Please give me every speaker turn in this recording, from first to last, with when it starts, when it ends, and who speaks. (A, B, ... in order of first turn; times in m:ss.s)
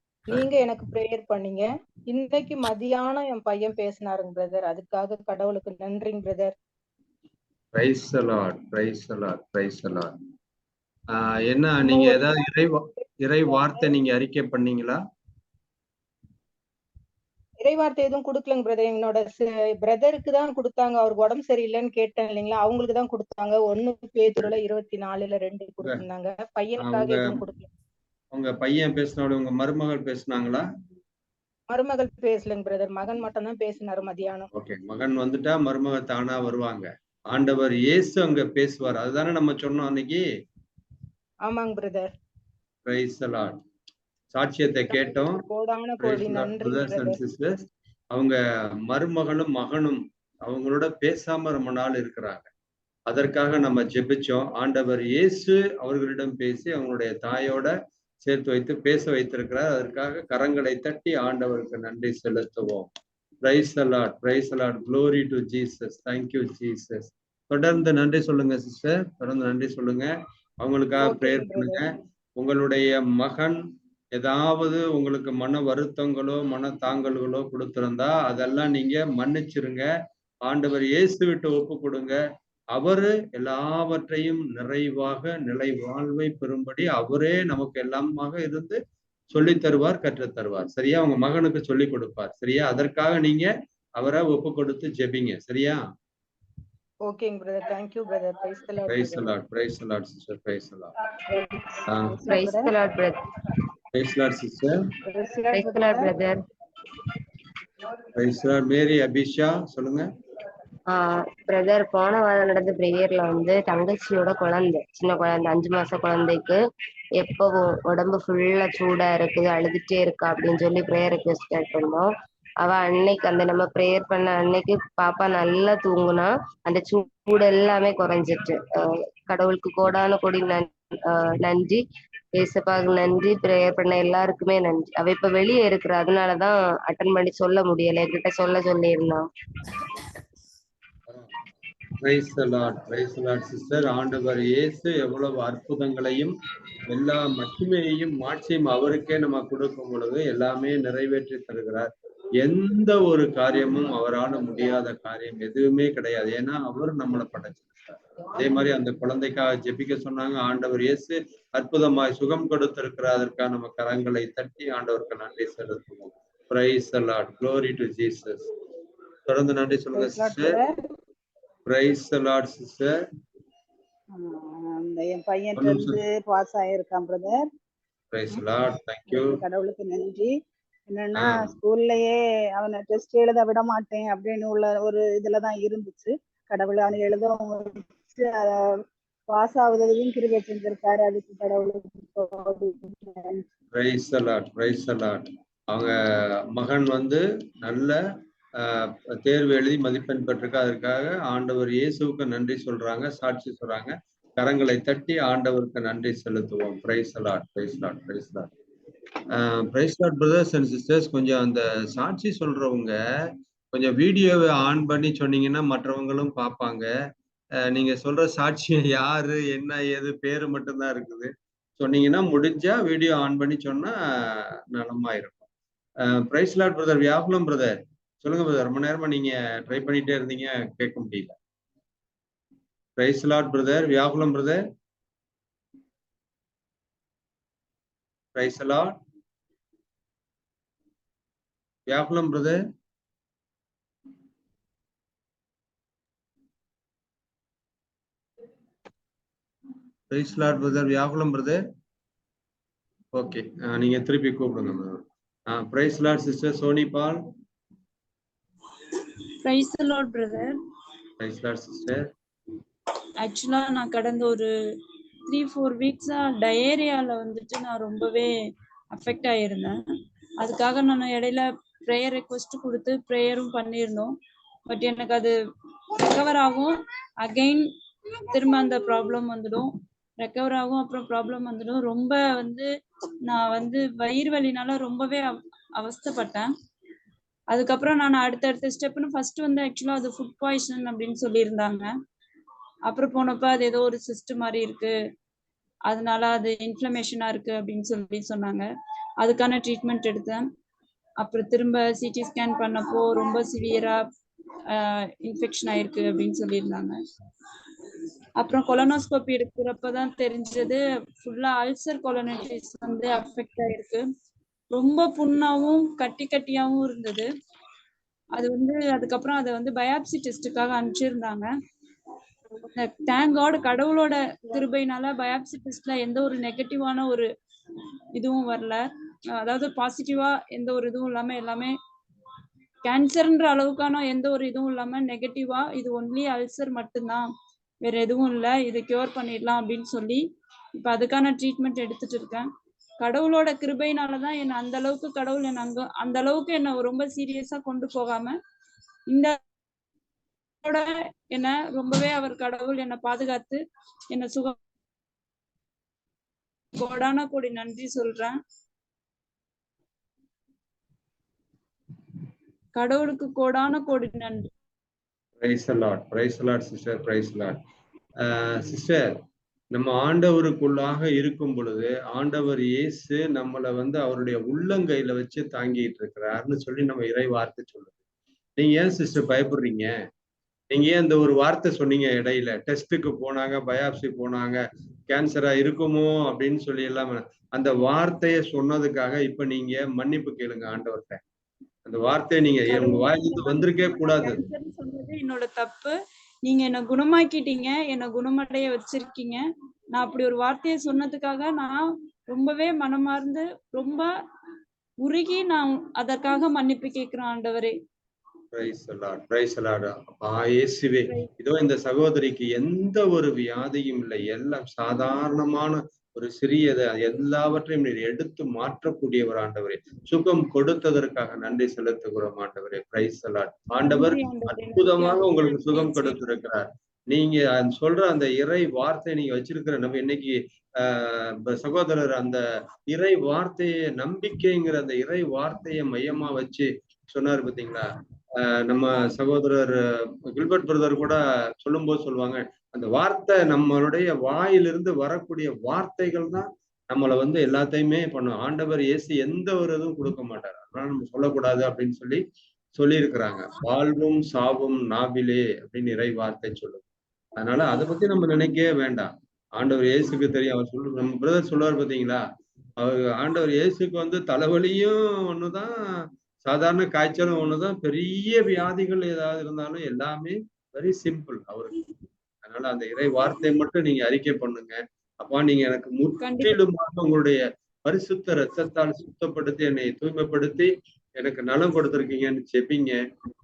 0:00.3-0:06.5 A
0:07.7-0:10.1 B
0:11.1-0:15.0 B
0:11.8-0:13.9 A
0:17.6-0:27.7 A
0:26.8-0:27.4 B
0:28.3-0:30.6 B
0:31.7-0:34.5 A
0:34.5-0:40.2 B
0:41.4-0:42.1 A
0:42.8-0:43.6 B
0:44.3-0:45.4 B
0:44.9-0:47.2 A
0:46.0-0:47.5 B
0:48.1-0:52.5 B
0:53.1-0:57.7 B
0:58.2-1:02.9 B
1:03.4-1:11.8 B
1:11.0-1:11.8 A
1:12.4-1:13.6 B
1:14.1-1:19.9 B
1:20.4-1:22.2 B
1:22.7-1:28.8 B
1:29.3-1:35.8 B
1:37.0-1:39.3 A
1:38.9-1:40.9 B
1:41.8-1:42.3 B
1:42.1-1:42.7 C
1:42.3-1:43.1 D
1:43.9-1:44.8 B
1:45.1-1:46.1 A
1:45.5-1:46.3 D
1:48.1-1:50.1 B
1:51.5-1:56.5 D
1:57.2-2:02.0 D
2:02.6-2:08.5 D
2:09.3-2:10.6 D
2:11.5-2:11.8 D
2:12.4-2:19.2 D
2:22.0-2:26.3 B
2:26.9-2:48.4 B
2:49.3-2:50.6 B
2:49.9-2:50.7 C
2:51.6-2:52.9 B
2:54.1-2:57.5 C
2:55.6-2:56.0 B
2:58.1-2:59.4 B
2:59.0-3:00.3 C
3:00.9-3:08.6 C
3:01.1-3:01.5 B
3:09.3-3:13.4 C
3:13.7-3:15.9 B
3:16.5-3:18.0 B
3:18.6-3:28.5 B
3:29.3-3:33.0 B
3:33.7-3:36.9 B
3:37.7-3:45.4 B
3:46.0-3:51.4 B
3:53.0-3:54.6 B
3:58.3-3:58.9 B
4:01.9-4:02.6 B
4:10.1-4:11.6 B
4:13.1-4:17.2 B
4:19.4-4:20.5 E
4:21.2-4:22.0 B
4:23.2-4:24.5 E
4:25.3-4:28.3 E
4:28.9-4:29.7 E
4:30.4-4:34.1 E
4:34.7-4:35.3 E
4:36.1-4:37.7 E
4:38.3-4:42.6 E
4:43.3-4:46.5 E
4:47.5-4:51.9 E
4:52.9-4:54.9 E
4:55.9-4:58.6 E
4:59.2-5:00.5 E
5:01.2-5:04.0 E
5:04.7-5:07.0 E
5:08.4-5:14.0 E
5:14.7-5:17.3 E
5:18.4-5:21.5 E
5:22.8-5:27.3 E
5:28.1-5:28.8 E
5:29.4-5:31.7 E
5:32.8-5:37.2 E
5:37.8-5:40.2 E
5:40.8-5:42.5 E
5:43.0-5:48.3 E
5:50.6-5:53.6 E
5:54.1-5:54.6 E
5:56.7-5:58.4 E
6:02.8-6:04.5 E
6:05.4-6:07.6 B
6:08.2-6:09.1 B
6:09.7-6:18.0 B
6:18.6-6:19.9 B
6:20.7-6:31.2 B
6:31.8-6:34.4 B
6:32.7-6:35.9 E
6:36.4-6:41.8 E
6:42.3-6:44.1 E
6:45.0-6:47.7 E
6:48.5-7:17.9 B
7:03.8-7:06.2 E
7:18.5-7:19.8 B
7:20.3-7:32.2 B
7:32.8-7:36.8 B
7:37.4-7:42.2 B
7:42.8-7:45.7 B
7:46.4-7:51.7 B
7:52.4-8:03.0 B
7:56.2-7:56.6 E